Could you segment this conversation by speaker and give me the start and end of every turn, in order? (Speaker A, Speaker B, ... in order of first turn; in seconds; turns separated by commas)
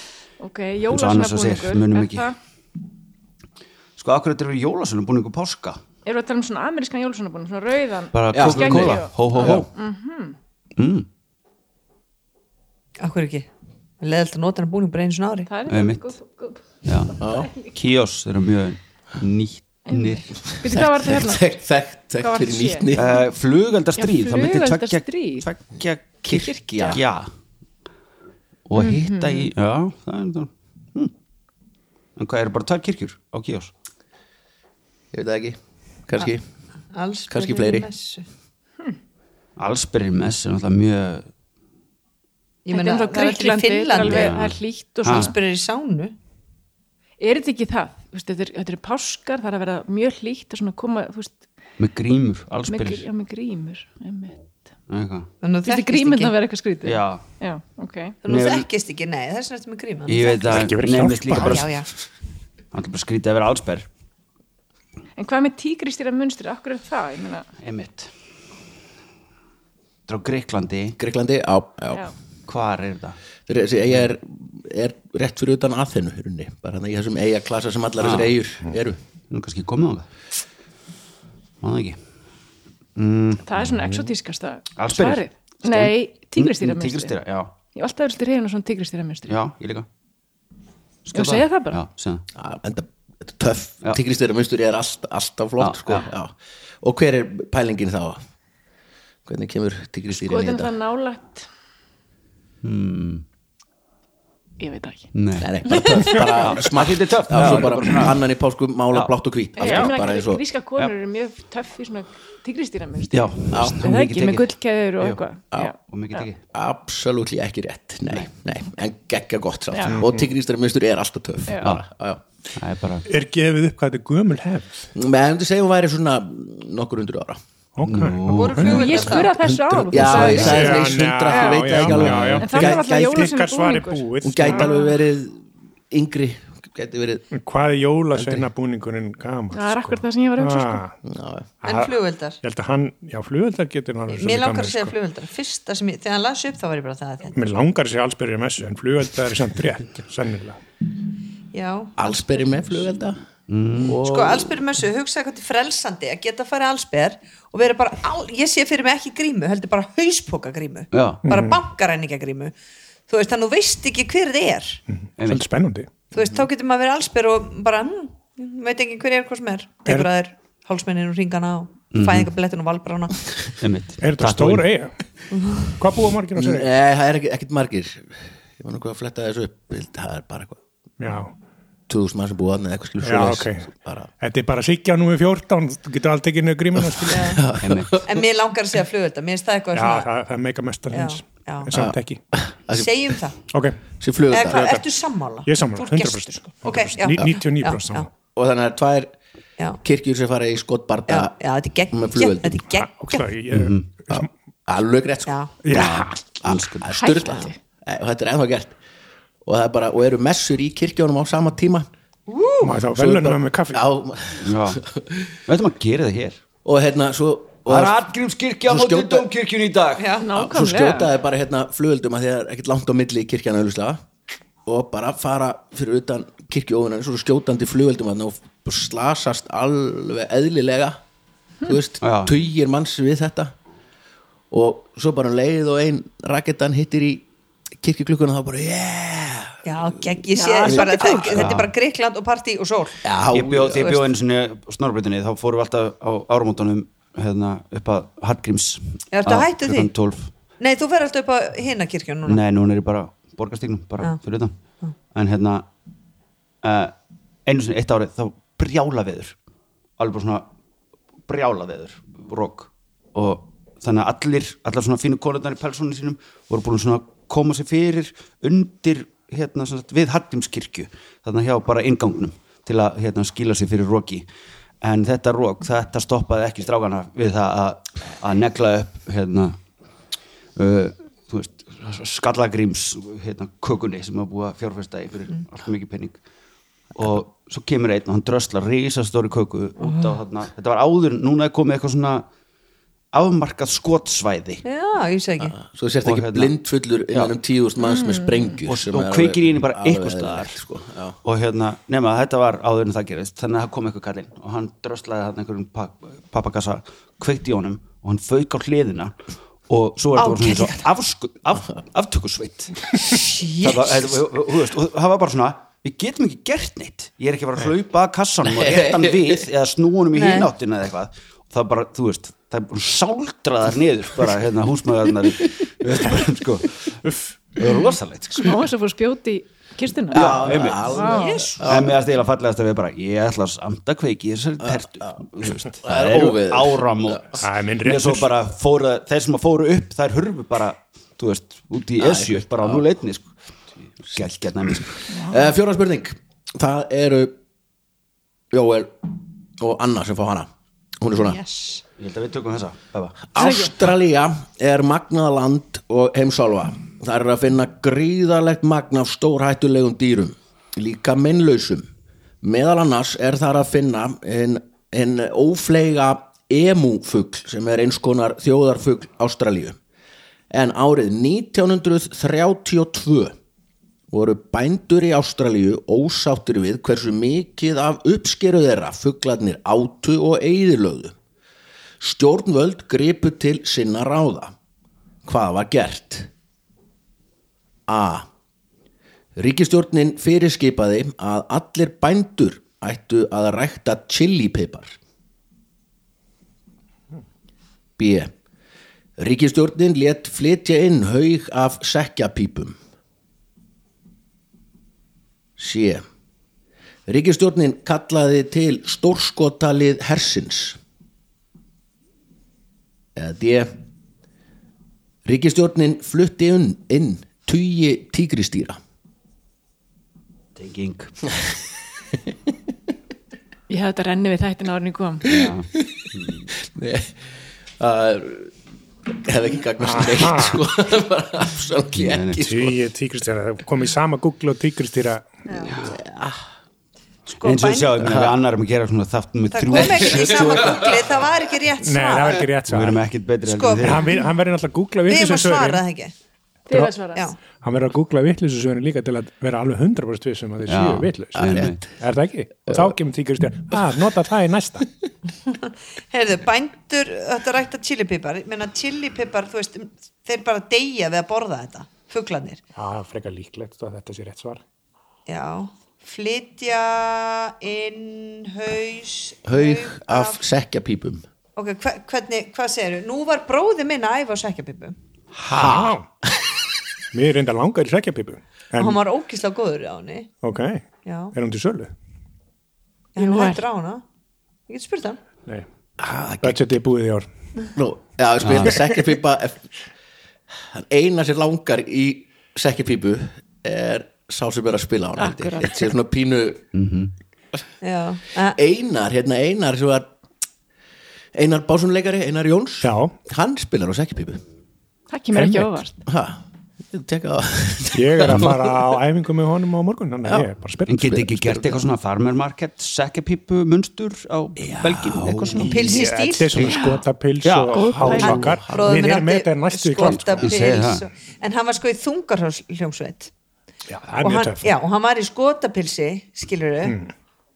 Speaker A: 0.4-2.4, Speaker B: 0.9-2.3, Speaker B: 4.0-5.8, Speaker A: 6.0-10.4, Speaker B: 8.1-9.7, Speaker C: 8.3-9.7, Speaker B: 10.8-11.1, Speaker D: 13.0-13.5, Speaker D: 14.0-15.5, Speaker A: 15.5-17.7, Speaker B: 15.7-16.1, Speaker B: 16.9-20.4, Speaker C: 17.2-17.5, Speaker A: 19.9-21.4, Speaker C: 20.5-23.1, Speaker A: 22.2-22.9, Speaker B: 22.9-27.3, Speaker A: 24.0-25.5, Speaker C: 26.2-27.0, Speaker A: 26.3-27.0, Speaker B: 28.7-31.1, Speaker A: 28.8-29.5, Speaker B: 32.2-33.7, Speaker C: 35.1-36.4, Speaker D: 36.9-38.3, Speaker C: 37.3-37.9, Speaker B: 39.6-41.3, Speaker D: 42.6-44.4, Speaker A: 42.7-45.4, Speaker B: 44.0-45.3, Speaker D: 45.1-46.1, Speaker A: 47.2-51.4, Speaker B: 51.8-53.1, Speaker A: 52.7-54.5, Speaker B: 54.9-55.3, Speaker D: 55.4-56.3, Speaker A: 55.6-58.2, Speaker B: 56.8-57.2, Speaker D: 58.2-60.7, Speaker B: 58.3-58.7, Speaker B: 60.1-61.7, Speaker E: 60.5-61.7, Speaker D: 61.3-61.9, Speaker B: 62.7-63.9, Speaker A: 65.2-67.5, Speaker B: 67.6-68.1, Speaker B: 70.1-71.0, Speaker C: 71.0-72.1, Speaker B: 72.5-73.2, Speaker C: 73.5-79.0, Speaker B: 78.0-78.4, Speaker B: 79.3-80.1, Speaker B: 81.6-82.0, Speaker B: 83.0-84.1, Speaker A: 83.4-87.2, Speaker B: 84.8-87.5, Speaker A: 87.7-89.3, Speaker B: 89.3-89.9, Speaker B: 91.1-92.2, Speaker A: 91.1-91.8, Speaker C: 92.3-98.2, Speaker B: 95.6-96.1, Speaker C: 99.3-100.7, Speaker A: 100.1-101.5, Speaker B: 102.6-103.2, Speaker A: 104.6-105.1, Speaker B: 105.1-108.2, Speaker C: 105.4-110.4, Speaker A: 105.7-106.1, Speaker B: 108.9-109.9, Speaker A: 109.6-116.3, Speaker B: 113.1-114.5, Speaker C: 113.5-113.8, Speaker B: 115.8-116.4, Speaker C: 116.5-122.2, Speaker A: 119.7-120.0, Speaker E: 119.9-120.3, Speaker B: 122.6-123.1, Speaker E: 123.1-124.9, Speaker C: 125.0-127.4, Speaker E: 127.8-128.9, Speaker B: 127.8-129.1, Speaker D: 128.3-129.3, Speaker A: 128.6-131.7, Speaker C: 129.5-133.4, Speaker B: 130.0-130.7, Speaker E: 130.0-134.8, Speaker B: 131.8-132.4, Speaker A: 132.4-134.8, Speaker C: 134.2-137.3, Speaker E: 137.3-141.0, Speaker C: 138.1-138.5, Speaker A: 139.5-140.8, Speaker C: 141.0-141.5, Speaker D: 141.6-142.4, Speaker E: 141.6-144.9, Speaker D: 144.1-147.3, Speaker E: 147.3-150.6, Speaker D: 151.5-152.8, Speaker C: 152.0-153.2, Speaker B: 153.5-154.0, Speaker C: 153.8-154.6, Speaker D: 154.0-162.5, Speaker B: 160.9-161.2, Speaker E: 161.2-161.6, Speaker D: 163.1-164.8, Speaker E: 165.0-165.9, Speaker B: 165.2-165.5, Speaker D: 166.1-173.2, Speaker B: 171.9-172.3, Speaker B: 173.6-174.7, Speaker E: 174.0-175.0, Speaker D: 175.3-175.7, Speaker E: 175.8-176.7, Speaker C: 176.4-180.6, Speaker E: 181.0-181.3, Speaker C: 181.9-184.1, Speaker E: 183.0-183.7, Speaker E: 184.2-187.4, Speaker C: 186.8-188.2, Speaker D: 187.1-187.4, Speaker B: 187.6-188.0, Speaker D: 188.1-190.1, Speaker E: 189.7-192.2, Speaker D: 190.9-191.7, Speaker C: 191.7-193.2, Speaker D: 192.7-193.4, Speaker E: 193.5-193.8, Speaker C: 194.0-194.8, Speaker D: 194.3-198.1, Speaker E: 194.5-194.8, Speaker E: 195.5-198.1, Speaker C: 198.4-199.1, Speaker C: 199.8-201.3, Speaker D: 201.1-203.3, Speaker C: 201.9-202.6, Speaker E: 202.9-204.3, Speaker B: 203.5-203.9, Speaker C: 204.1-205.8, Speaker D: 205.3-205.5, Speaker E: 205.6-206.3, Speaker B: 205.7-207.0, Speaker C: 206.4-208.8, Speaker A: 207.0-207.6, Speaker C: 209.4-211.9, Speaker D: 212.3-212.8, Speaker E: 212.6-213.8, Speaker C: 212.9-215.3, Speaker B: 214.4-214.8, Speaker B: 215.5-216.4, Speaker C: 216.7-218.0, Speaker B: 217.7-220.1, Speaker C: 218.7-219.3, Speaker D: 220.0-220.3, Speaker A: 220.2-221.1, Speaker C: 220.3-224.0, Speaker C: 224.7-231.0, Speaker C: 231.6-233.5, Speaker B: 232.0-232.3, Speaker C: 234.5-237.3, Speaker C: 237.8-240.1, Speaker D: 239.7-243.0, Speaker A: 240.3-241.4, Speaker C: 240.7-241.5, Speaker B: 241.2-241.7, Speaker C: 243.0-244.0, Speaker B: 243.3-250.3, Speaker D: 249.1-249.9, Speaker D: 250.6-252.4, Speaker B: 252.3-254.5, Speaker B: 255.2-255.7, Speaker B: 256.6-256.9, Speaker B: 257.5-259.4, Speaker B: 260.0-260.5, Speaker B: 261.3-274.2, Speaker B: 274.8-279.6, Speaker B: 280.6-286.2, Speaker B: 286.9-292.3, Speaker D: 289.8-290.2, Speaker B: 293.1-294.6, Speaker D: 294.6-295.6, Speaker C: 295.4-301.2, Speaker B: 296.0-296.5, Speaker A: 297.9-298.4, Speaker B: 298.6-300.6, Speaker B: 301.2-309.1, Speaker B: 309.7-313.1, Speaker D: 310.2-310.9, Speaker D: 313.0-314.2, Speaker B: 313.6-327.0, Speaker C: 318.4-319.4, Speaker D: 320.1-320.5, Speaker B: 327.5-328.6, Speaker A: 328.4-331.5, Speaker C: 330.1-332.0, Speaker B: 330.1-331.0, Speaker D: 331.0-331.6, Speaker B: 331.6-343.3, Speaker C: 334.6-337.4, Speaker E: 337.4-338.3, Speaker C: 342.0-342.8, Speaker B: 344.0-345.0, Speaker A: 345.1-345.4, Speaker C: 345.2-347.3, Speaker C: 348.5-350.5, Speaker C: 351.0-351.4, Speaker D: 351.2-351.8, Speaker B: 352.0-353.3, Speaker C: 353.3-361.9, Speaker A: 353.4-353.8, Speaker C: 362.4-369.8, Speaker C: 370.5-373.4, Speaker C: 374.1-381.1, Speaker C: 382.0-384.5, Speaker C: 385.2-386.3, Speaker C: 387.9-388.3, Speaker C: 389.4-395.0, Speaker C: 398.0-398.3, Speaker C: 399.2-402.8, Speaker C: 405.6-406.0, Speaker C: 407.1-410.8, Speaker C: 413.2-413.7, Speaker C: 415.2-418.8, Speaker B: 420.6-421.1, Speaker A: 423.7-425.2, Speaker B: 425.2-426.5, Speaker C: 425.3-426.1, Speaker C: 426.6-427.2, Speaker C: 427.8-428.6, Speaker C: 429.1-432.8, Speaker E: 429.8-430.6, Speaker B: 431.9-432.4, Speaker E: 432.4-435.3, Speaker C: 435.8-436.4, Speaker B: 437.4-441.0, Speaker D: 437.4-437.9, Speaker C: 438.0-438.4, Speaker D: 439.5-442.4, Speaker C: 439.8-440.9, Speaker E: 441.8-443.0, Speaker B: 442.7-444.1, Speaker D: 443.4-444.2, Speaker E: 443.8-445.8, Speaker D: 445.1-446.1, Speaker A: 446.7-447.3, Speaker E: 447.5-454.9, Speaker B: 450.7-451.8, Speaker C: 451.4-451.9, Speaker C: 452.7-452.9, Speaker D: 455.5-462.6, Speaker E: 462.8-464.6, Speaker D: 465.3-470.4, Speaker C: 469.5-471.2, Speaker D: 471.6-474.9, Speaker C: 475.4-476.0, Speaker E: 475.5-476.1, Speaker E: 477.1-479.0, Speaker D: 478.8-480.3, Speaker E: 480.4-481.9, Speaker D: 481.1-481.3, Speaker D: 483.2-484.0, Speaker A: 483.2-483.6, Speaker D: 484.7-485.2, Speaker C: 486.0-486.8, Speaker E: 486.4-487.3, Speaker C: 487.8-489.7, Speaker B: 488.4-488.8, Speaker C: 490.7-496.7, Speaker A: 495.2-495.9, Speaker B: 496.7-497.1, Speaker D: 497.8-498.6, Speaker C: 498.5-500.1, Speaker C: 501.3-504.4, Speaker E: 502.8-503.1, Speaker A: 505.1-506.0, Speaker E: 505.3-505.8, Speaker C: 506.1-508.8, Speaker E: 507.9-511.2, Speaker B: 510.9-515.8, Speaker C: 511.1-511.9, Speaker C: 514.6-515.9, Speaker D: 515.6-516.7, Speaker E: 515.6-520.5, Speaker A: 516.6-517.0, Speaker B: 517.4-518.4, Speaker A: 517.7-518.5, Speaker D: 518.2-523.3, Speaker C: 518.6-519.0, Speaker B: 520.4-521.0, Speaker E: 523.9-524.7, Speaker D: 524.2-527.0, Speaker E: 526.9-527.1